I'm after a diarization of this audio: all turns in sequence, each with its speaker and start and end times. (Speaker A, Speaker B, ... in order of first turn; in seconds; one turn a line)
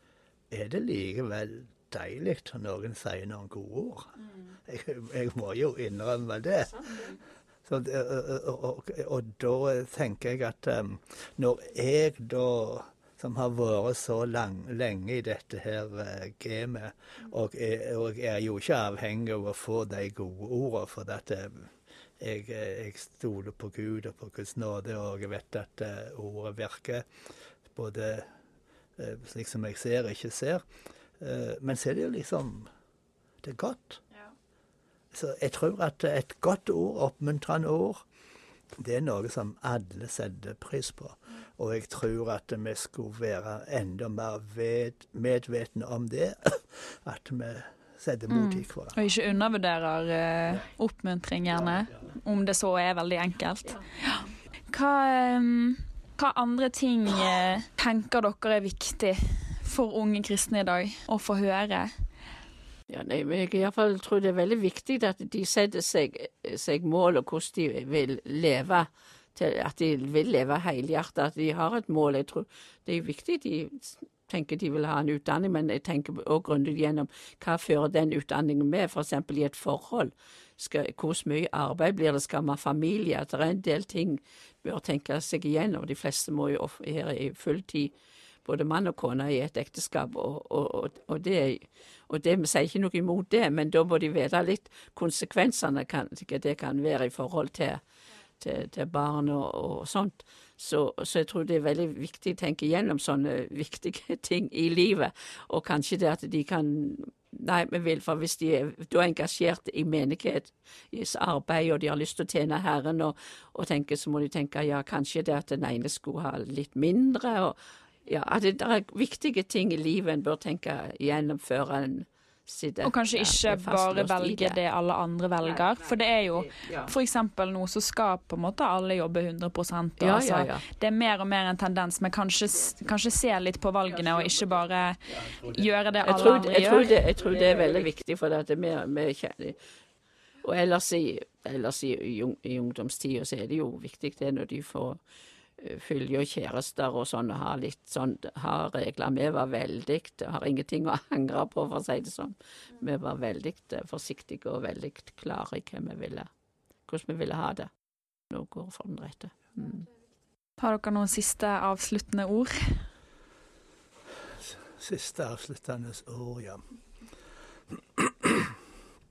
Speaker A: 0.5-27.1
Speaker A: 27.7-28.3
Speaker A: 29.0-30.6
Speaker A: 31.2-32.7
Speaker A: 33.4-34.0
Speaker A: 35.1-38.0
Speaker A: 38.8-49.0
Speaker B: 48.3-61.9
Speaker C: 62.9-87.9
Speaker C: 88.4-97.8
Speaker C: 98.4-124.6
Speaker B: 122.8-137.0
Speaker C: 126.5-126.9
Speaker C: 130.0-130.6
Speaker C: 136.0-139.6
Speaker C: 140.4-145.0
Speaker C: 145.6-156.3
Speaker C: 156.9-157.7
Speaker C: 158.3-159.9
Speaker B: 160.6-162.8
Speaker A: 164.1-166.6
Speaker A: 167.7-168.6